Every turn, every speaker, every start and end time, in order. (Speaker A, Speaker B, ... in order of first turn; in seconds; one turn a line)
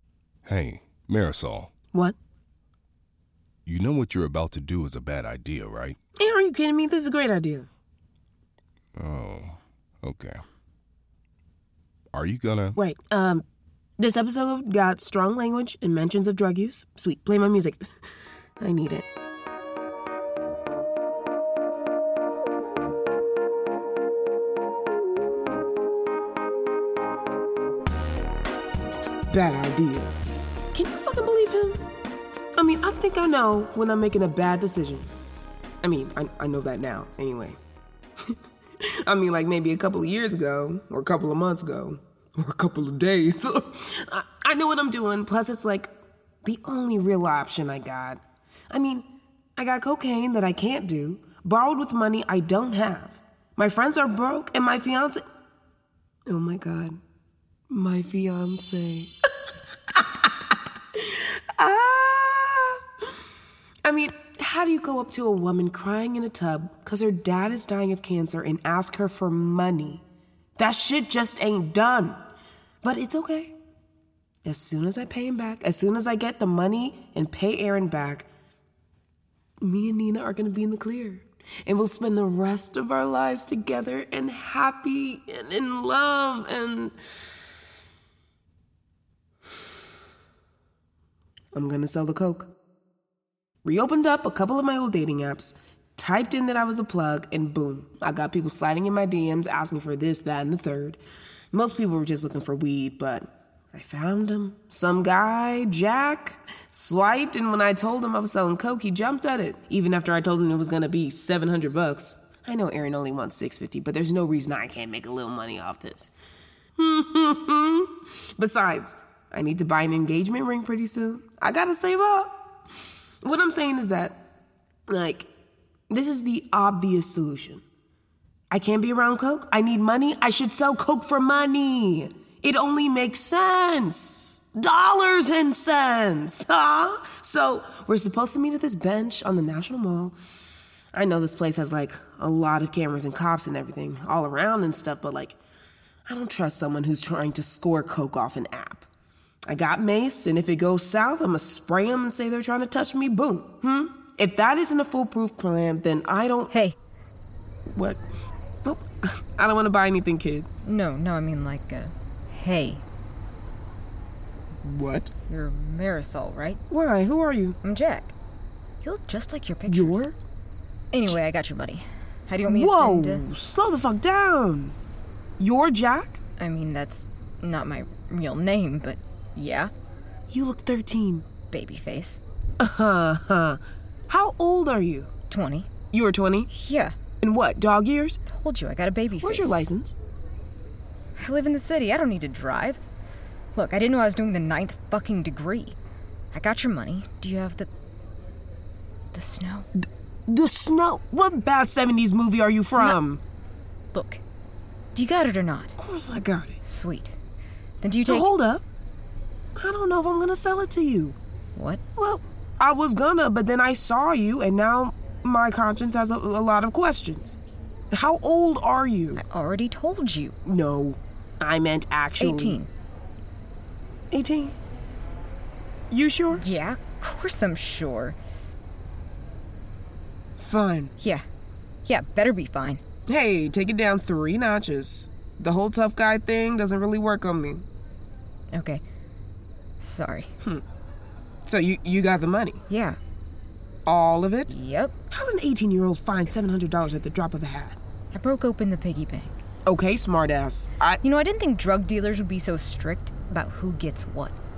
Speaker A: 0.5-1.7
Speaker A: 3.7-6.0
Speaker B: 6.2-7.7
Speaker A: 9.0-10.4
Speaker A: 12.1-12.7
Speaker B: 12.8-13.4
Speaker B: 14.0-17.9
Speaker B: 18.6-19.1
Speaker B: 29.3-30.1
Speaker B: 30.7-31.9
Speaker B: 32.6-35.1
Speaker B: 35.8-37.6
Speaker B: 38.3-45.9
Speaker B: 46.4-55.3
Speaker B: 56.3-57.0
Speaker B: 57.7-59.1
Speaker B: 59.9-62.8
Speaker B: 63.8-70.0
Speaker B: 70.6-72.2
Speaker B: 72.8-73.6
Speaker B: 74.5-78.3
Speaker B: 79.6-87.0
Speaker B: 91.5-92.5
Speaker B: 93.6-101.0
Speaker B: 101.5-116.1
Speaker B: 116.8-122.4
Speaker B: 123.2-124.2
Speaker B: 124.9-125.3
Speaker B: 125.9-127.6
Speaker B: 128.5-140.2
Speaker B: 140.9-145.4
Speaker B: 146.1-148.9
Speaker B: 149.5-156.5
Speaker C: 156.5-156.8
Speaker B: 157.7-158.0
Speaker B: 158.7-160.5
Speaker C: 160.6-162.8
Speaker B: 164.6-165.1
Speaker C: 165.3-166.6
Speaker B: 166.7-167.6
Speaker C: 167.6-168.1
Speaker C: 168.8-170.1
Speaker B: 169.7-170.2
Speaker C: 170.9-173.2
Speaker B: 172.4-174.8
Speaker B: 175.4-176.2
Speaker C: 176.4-179.7
Speaker B: 180.3-181.3
Speaker C: 181.5-182.2
Speaker B: 182.6-185.1
Speaker C: 185.3-185.7
Speaker B: 185.9-186.5
Speaker C: 186.5-186.9
Speaker B: 187.2-188.2
Speaker C: 188.3-189.7
Speaker B: 189.2-189.9
Speaker C: 191.2-192.8
Speaker C: 193.6-195.8
Speaker C: 196.3-197.7
Speaker C: 199.1-199.7
Speaker B: 199.8-203.2
Speaker C: 203.9-204.2
Speaker C: 204.9-205.8
Speaker B: 205.8-206.6
Speaker C: 206.6-207.1
Speaker C: 207.8-208.3
Speaker B: 208.1-208.7
Speaker B: 209.6-211.2
Speaker C: 211.6-211.8
Speaker B: 212.0-217.4
Speaker B: 217.9-219.2
Speaker C: 219.2-220.3
Speaker B: 220.5-222.6
Speaker C: 222.2-222.7
Speaker B: 224.1-224.5
Speaker B: 225.9-226.4
Speaker C: 226.3-228.2
Speaker B: 230.4-230.9
Speaker C: 231.0-231.2
Speaker C: 231.8-232.8
Speaker B: 233.1-237.7
Speaker C: 238.5-238.8
Speaker C: 239.8-240.3
Speaker B: 241.4-242.6
Speaker C: 242.7-243.0
Speaker B: 243.9-244.5
Speaker C: 244.5-244.9
Speaker B: 245.1-247.8
Speaker C: 248.1-249.3
Speaker B: 249.7-251.0
Speaker C: 251.0-254.4